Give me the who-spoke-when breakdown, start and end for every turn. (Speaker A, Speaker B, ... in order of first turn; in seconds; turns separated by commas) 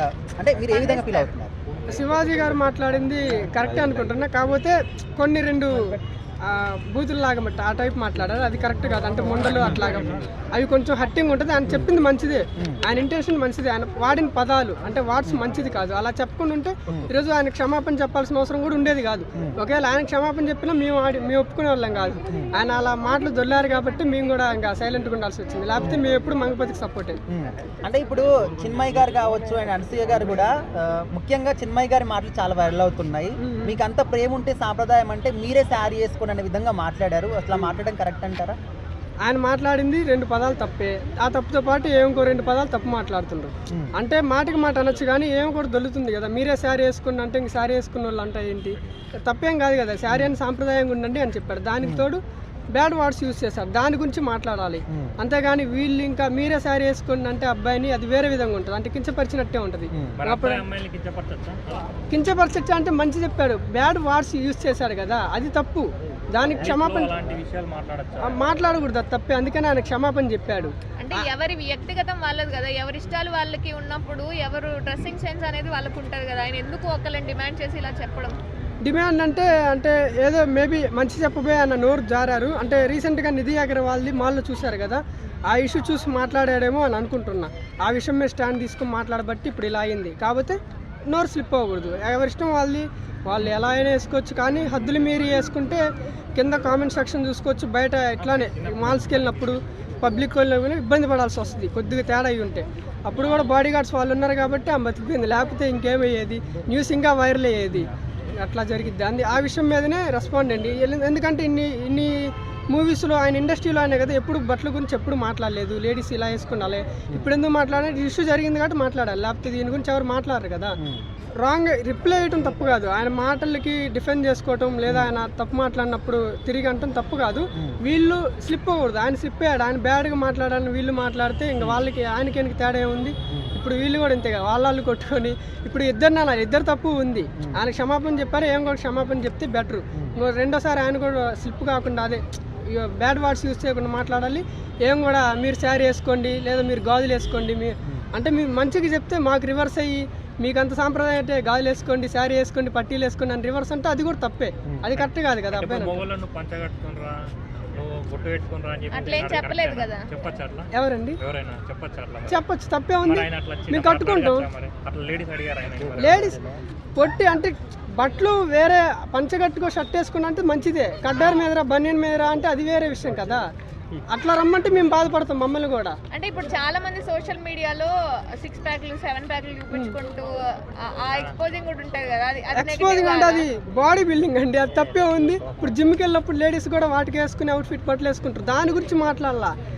Speaker A: 0.3-1.5, Speaker B: 0.7-1.3, Speaker C: 1.9-27.2, Speaker A: 27.3-38.6, Speaker C: 33.4-33.8, Speaker C: 39.2-52.2, Speaker C: 52.7-60.6, Speaker D: 60.2-61.9, Speaker C: 62.1-67.1, Speaker D: 66.6-68.4, Speaker C: 68.2-71.2, Speaker B: 71.0-78.4, Speaker C: 78.8-95.8, Speaker C: 96.4-120.8, Speaker D: 98.2-99.6, Speaker C: 121.4-156.0, Speaker D: 155.0-157.2, Speaker D: 157.8-162.4, Speaker B: 158.9-160.1, Speaker C: 160.7-161.2, Speaker C: 162.3-164.5, Speaker D: 163.0-166.4, Speaker C: 166.0-166.4, Speaker C: 167.0-173.4, Speaker B: 171.1-171.5, Speaker C: 174.1-176.0, Speaker B: 176.1-183.5, Speaker C: 179.7-180.0, Speaker C: 182.5-189.6